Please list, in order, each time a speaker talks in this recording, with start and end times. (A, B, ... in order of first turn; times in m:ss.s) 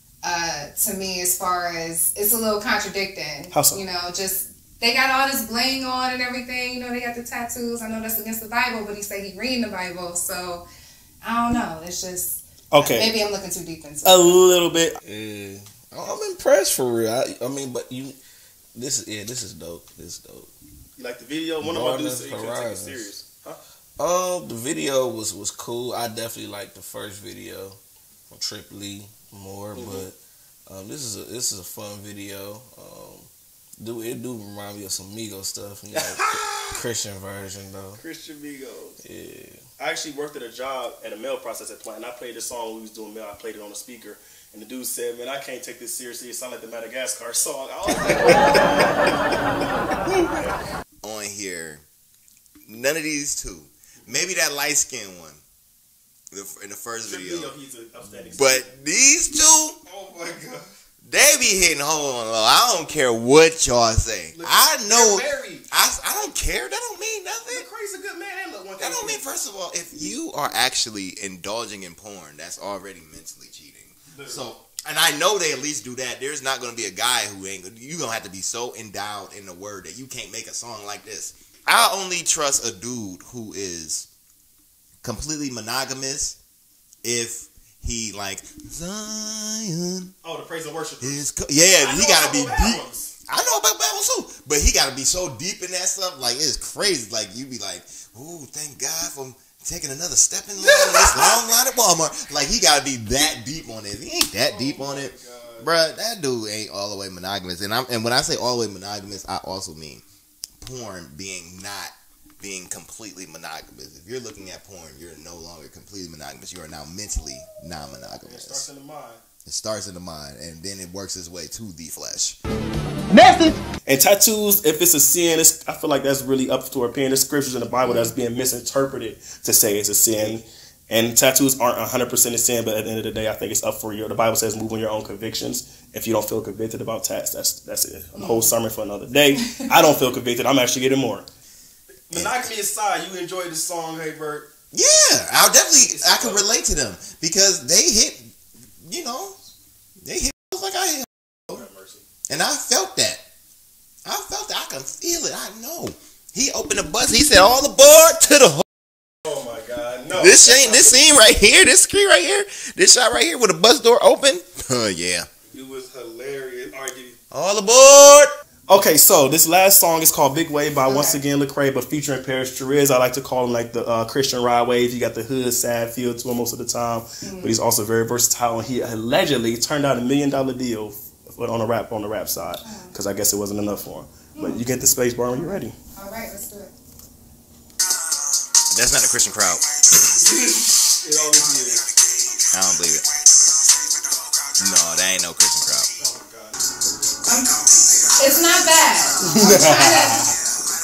0:00.2-0:10.6 A
0:03.5-0:03.8 B
0:11.2-0:14.4 A
0:12.7-0:13.1 B
0:14.0-0:15.0 B
0:15.1-0:18.1 C
0:18.8-0:20.5 C
0:21.0-0:23.6 B
0:21.6-0:23.1 C
0:24.0-0:27.8 C
0:28.3-0:30.2 C
0:29.7-0:30.1 B
0:30.7-0:33.3 C
0:33.8-0:38.0 C
0:35.9-0:36.8 B
0:38.0-0:39.0 B
0:39.2-0:39.5 C
0:39.8-0:49.3 B
0:51.0-0:51.8 D
0:52.6-0:55.4 D
0:54.0-0:54.4 B
0:56.3-0:57.5 D
0:57.0-0:58.7 B
0:58.3-0:59.8 D
0:59.8-1:00.7 B
1:01.0-1:07.6 D
1:04.3-1:05.6 B
1:07.5-1:09.2 B
1:08.8-1:24.1 D
1:14.1-1:14.5 B
1:25.0-1:26.4 D
1:27.0-1:30.1 D
1:30.2-1:31.2 B
1:31.0-1:50.0 D
1:31.8-1:33.1 B
1:40.6-1:41.4 B
1:44.4-1:45.7 B
1:50.6-1:58.6 D
1:58.2-1:59.2 B
1:59.4-2:02.4 D
2:03.8-2:21.3 B
2:07.8-2:08.1 A
2:18.2-2:18.5 A
2:22.1-2:24.5 B
2:22.1-2:22.5 D
2:24.7-2:28.3 D
2:25.8-2:26.4 B
2:28.8-2:29.4 D
2:30.0-2:31.6 D
2:31.5-2:32.0 B
2:32.3-2:33.2 D
2:34.0-2:38.6 D
2:39.2-2:41.0 B
2:40.1-2:45.3 D
2:45.5-2:47.2 B
2:47.3-2:48.3 D
2:48.7-3:05.7 B
2:50.8-2:51.2 A
2:57.2-2:57.5 A
3:02.6-3:02.9 A
3:04.3-3:04.6 A
3:05.3-3:06.7 A
3:08.7-3:09.6 D
3:10.1-3:11.8 B
3:12.5-3:13.0 D
3:14.6-3:15.9 D
3:16.0-3:16.6 B
3:17.2-3:20.2 A
3:19.2-3:20.3 B